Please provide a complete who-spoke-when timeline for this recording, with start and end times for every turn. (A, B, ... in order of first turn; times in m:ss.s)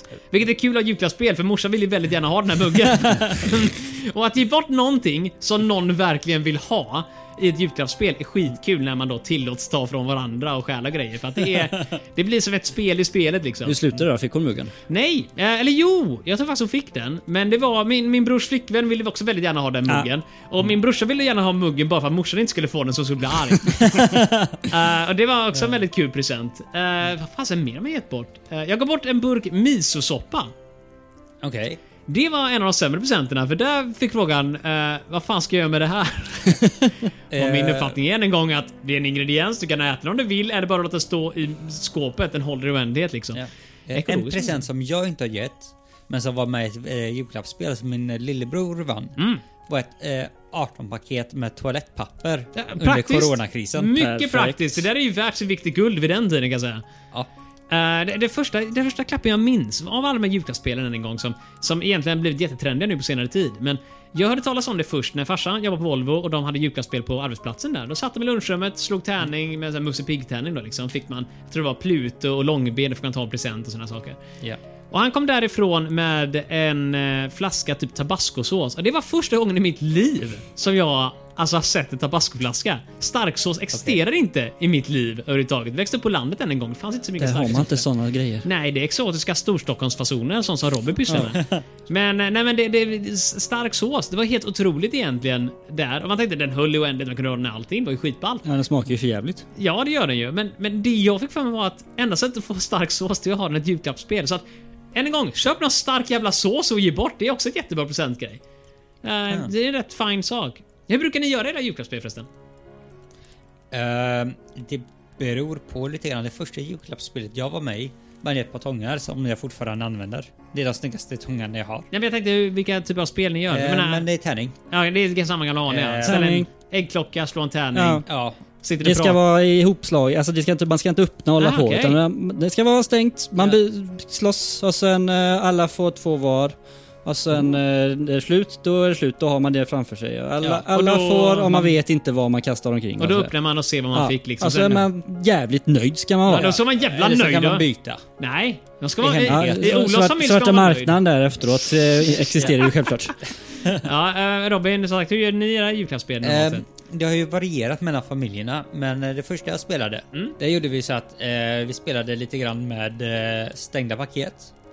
0:00.3-0:13.8 A
0:13.6-0:14.7 B
0:14.9-0:30.5 A
0:24.0-0:24.3 C
0:31.4-0:31.8 C
0:32.1-0:44.6 A
0:37.3-0:38.0 C
0:43.3-0:54.0 C
0:49.2-0:49.4 A
0:52.6-0:56.8 A
0:54.0-0:54.8 B
0:57.7-1:14.2 A
1:14.9-1:27.9 A
1:23.7-1:24.0 C
1:27.2-1:28.4 B
1:28.4-1:38.4 A
1:31.4-1:31.6 C
1:38.4-1:39.4 B
1:39.6-1:44.4 A
1:44.9-1:48.4 A
1:49.0-1:52.3 A
1:53.7-2:01.9 C
2:01.9-2:04.1 A
2:03.5-2:04.6 C
2:04.7-2:08.1 A
2:05.7-2:06.3 C
2:06.0-2:06.5 B
2:07.8-2:08.0 B
2:08.1-2:08.4 C
2:08.6-2:09.2 A
2:08.8-2:23.3 B
2:11.4-2:12.0 A
2:20.4-2:21.8 A
2:23.0-2:24.9 A
2:23.9-2:26.6 B
2:26.3-2:27.7 A
2:26.3-2:28.0 C
2:28.2-2:31.0 A
2:29.0-2:29.8 C
2:29.3-2:33.2 B
2:33.6-2:33.9 C
2:33.8-2:36.6 A
2:36.2-2:44.5 C